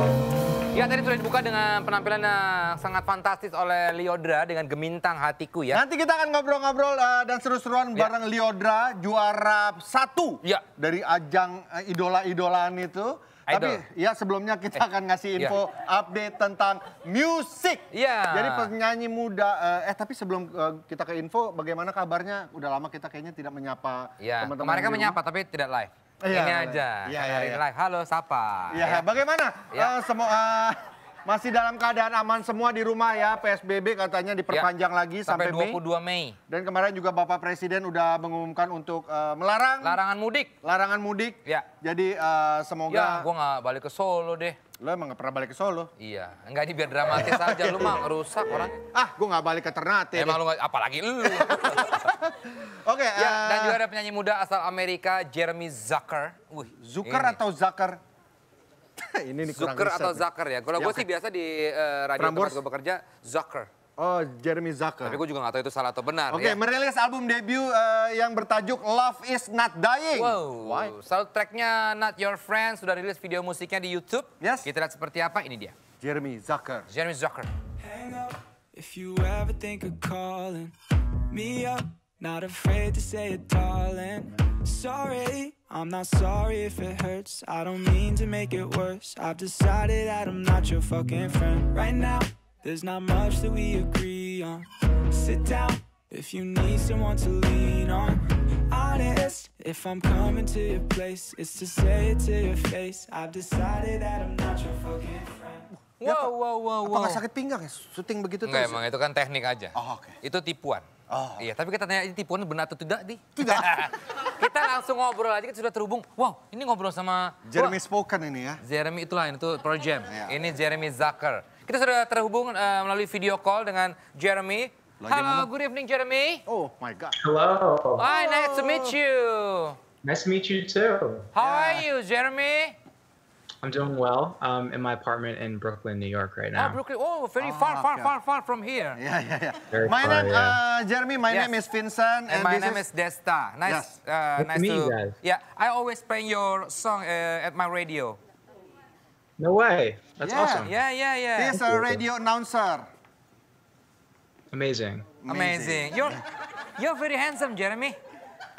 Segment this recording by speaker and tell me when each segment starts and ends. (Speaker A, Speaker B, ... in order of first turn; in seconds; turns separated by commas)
Speaker A: 0.7-5.8, Speaker B: 5.7-25.2, Speaker A: 13.5-13.8, Speaker A: 17.9-18.7, Speaker A: 24.2-29.1, Speaker B: 26.2-27.6, Speaker B: 28.7-35.8, Speaker A: 35.2-36.4, Speaker B: 36.5-40.0, Speaker A: 39.8-40.5, Speaker B: 40.6-43.3, Speaker A: 42.9-44.6, Speaker B: 44.8-45.9, Speaker A: 46.0-48.8, Speaker B: 47.1-50.4, Speaker A: 50.1-52.1, Speaker B: 51.2-53.8, Speaker A: 53.2-57.4, Speaker B: 56.7-58.0, Speaker B: 59.0-61.1, Speaker A: 59.5-63.7, Speaker B: 62.2-62.6, Speaker B: 64.0-65.2, Speaker A: 65.0-66.6, Speaker B: 66.3-70.9, Speaker A: 70.2-75.8, Speaker B: 74.4-74.7, Speaker B: 76.0-76.9, Speaker A: 76.9-77.5, Speaker C: 77.8-80.7, Speaker C: 81.3-105.7, Speaker B: 105.7-108.8, Speaker A: 106.0-107.2, Speaker A: 108.4-110.9, Speaker B: 109.8-110.2, Speaker B: 111.1-111.5, Speaker A: 111.4-117.8, Speaker B: 113.4-113.9, Speaker B: 117.5-118.6, Speaker A: 118.6-126.4, Speaker B: 120.1-120.5, Speaker B: 125.0-125.5, Speaker B: 126.5-127.2, Speaker D: 127.3-127.9, Speaker A: 128.0-129.8, Speaker B: 128.1-129.0, Speaker D: 130.1-131.3, Speaker A: 131.3-132.8, Speaker B: 131.4-131.9, Speaker D: 133.6-136.8, Speaker A: 136.6-139.0, Speaker B: 137.4-138.2, Speaker B: 139.0-142.8, Speaker D: 139.7-140.6, Speaker A: 142.3-148.2, Speaker B: 143.7-143.9, Speaker D: 144.5-145.1, Speaker D: 149.4-150.7, Speaker B: 150.2-150.7, Speaker A: 150.6-151.7, Speaker B: 151.4-152.9, Speaker D: 154.5-155.1, Speaker B: 155.2-156.2, Speaker A: 155.3-158.0